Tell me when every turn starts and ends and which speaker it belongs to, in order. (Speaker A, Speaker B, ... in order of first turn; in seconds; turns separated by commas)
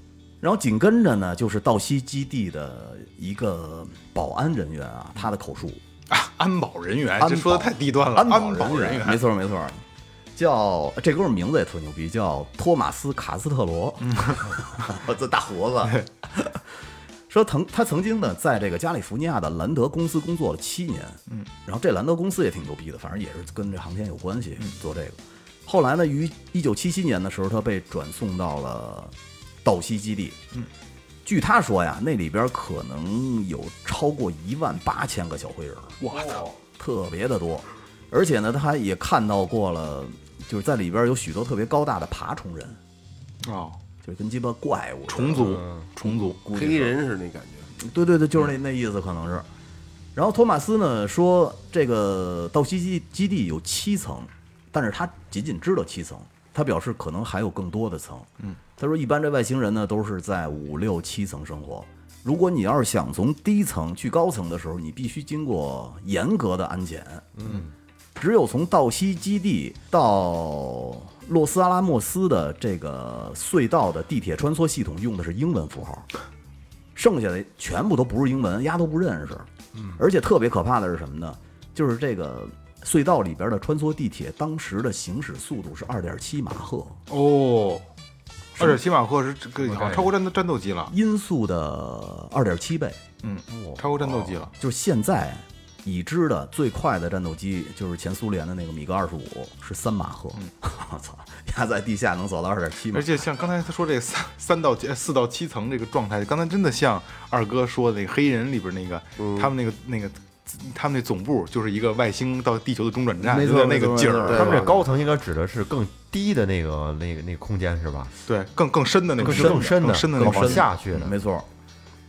Speaker A: 0.4-5.8, Speaker B: 6.1-9.2, Speaker A: 7.2-9.8, Speaker A: 10.3-16.6, Speaker B: 14.1-14.6, Speaker A: 17.3-29.1, Speaker A: 29.6-30.4, Speaker A: 31.2-36.0, Speaker B: 36.0-36.5, Speaker A: 36.6-42.8, Speaker B: 43.4-43.8, Speaker A: 44.0-46.9, Speaker B: 45.1-46.4, Speaker C: 46.5-47.7, Speaker A: 47.8-49.5, Speaker A: 50.1-67.3, Speaker D: 67.3-67.7, Speaker A: 68.2-76.1, Speaker A: 76.9-87.0, Speaker B: 87.1-87.9, Speaker B: 88.6-90.9, Speaker D: 89.7-90.1, Speaker A: 90.9-93.0, Speaker B: 93.2-94.5, Speaker D: 93.5-94.5, Speaker A: 94.6-103.2, Speaker B: 102.9-114.7, Speaker C: 109.2-109.5, Speaker A: 113.2-114.7, Speaker D: 114.3-118.1, Speaker C: 114.3-114.7, Speaker B: 118.3-121.1, Speaker D: 119.2-121.1, Speaker A: 119.2-121.5